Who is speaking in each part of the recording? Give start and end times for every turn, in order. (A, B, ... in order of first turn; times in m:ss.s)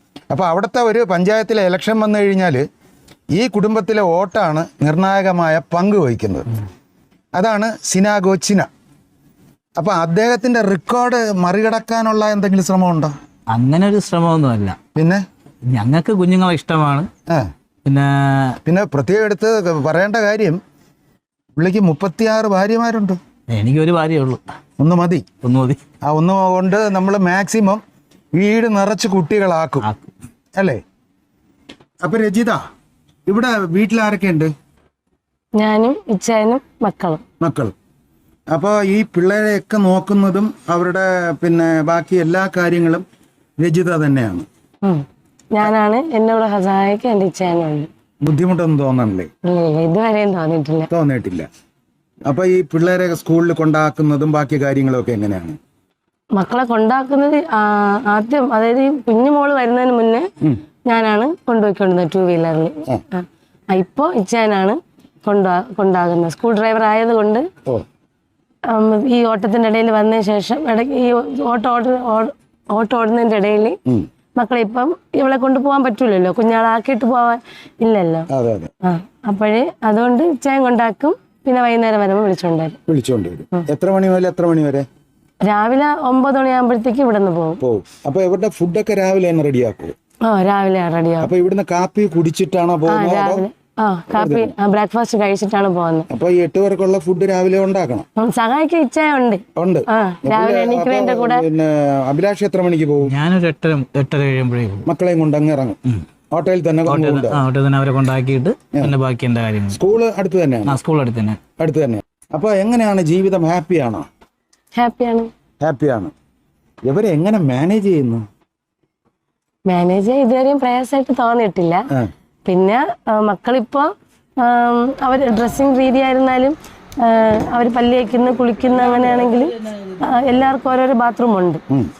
0:00.3-0:02.6 A
0:03.3-0:06.5 A
0:07.3-0:08.7 A
0:09.8-0:13.1 A
0:13.5-0:14.8 B
0:14.9-0:15.2 A
0:15.7-0:17.1 B
0:17.8-0:18.6 B
0:18.6-0:20.6 A
0:21.6-0:23.2 A
0:23.5-0:24.4 B
0:24.8-0:25.2 A
0:25.4-0:25.8 B
0:26.0-0:27.8 A
0:28.3-0:29.9 A
0:29.8-0:30.1 B
0:30.6-0:30.8 A
0:32.0-0:32.6 A
0:33.3-0:34.5 A
0:35.6-0:37.2 C
0:37.4-0:37.7 A
0:38.5-0:43.0 A
0:43.6-0:44.5 A
0:44.8-0:47.9 C
0:48.2-0:49.3 A
0:49.4-0:50.9 C
0:50.9-0:51.5 A
0:52.2-0:55.6 A
0:56.3-1:00.3 C
1:00.8-1:07.5 C
1:08.7-1:13.8 C
1:14.4-1:18.3 C
1:18.3-1:18.7 A
1:18.8-1:22.8 C
1:22.9-1:24.9 A
1:25.4-1:27.6 C
1:27.6-1:29.9 A
1:30.2-1:31.3 C
1:31.2-1:33.4 A
1:32.9-1:36.1 C
1:34.1-1:34.5 A
1:36.1-1:38.1 A
1:38.2-1:41.4 C
1:39.5-1:43.1 A
1:43.0-1:44.9 B
1:44.8-1:45.8 A
1:46.3-1:47.4 A
1:46.9-1:49.8 B
1:49.7-1:50.8 A
1:50.6-1:51.4 B
1:51.6-1:54.1 A
1:54.8-1:55.3 C
1:55.6-1:56.1 A
1:56.8-1:58.2 A
1:59.7-2:01.9 C
2:02.4-2:11.6 C